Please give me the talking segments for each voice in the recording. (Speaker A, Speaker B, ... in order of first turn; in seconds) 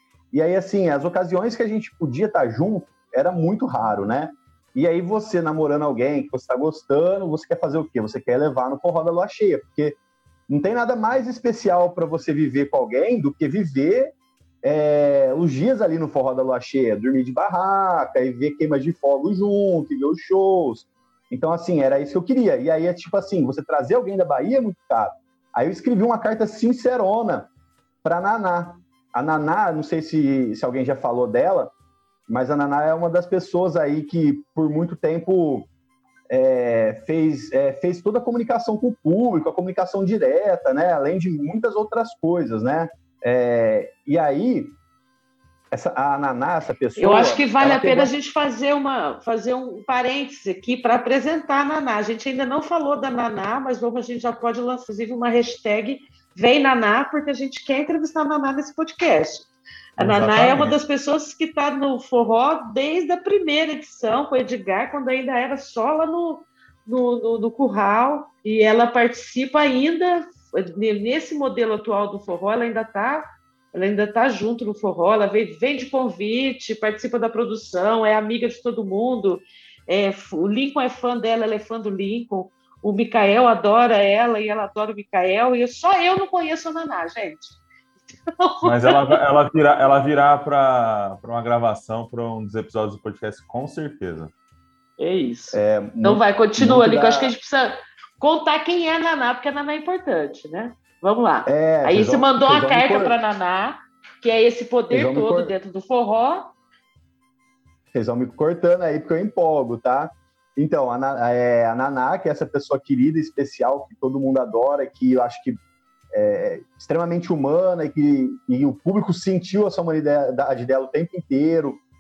Speaker A: 0.3-10.0, 10.5-27.5, 28.0-31.7, 32.3-35.7, 36.3-44.8, 45.7-48.1, 95.5-97.3, 101.5-103.2, 104.9-105.5, 107.9-115.6, 116.1-121.8
Speaker B: 47.0-87.6, 88.4-89.2, 95.0-106.5
Speaker C: 60.0-60.8, 88.6-94.3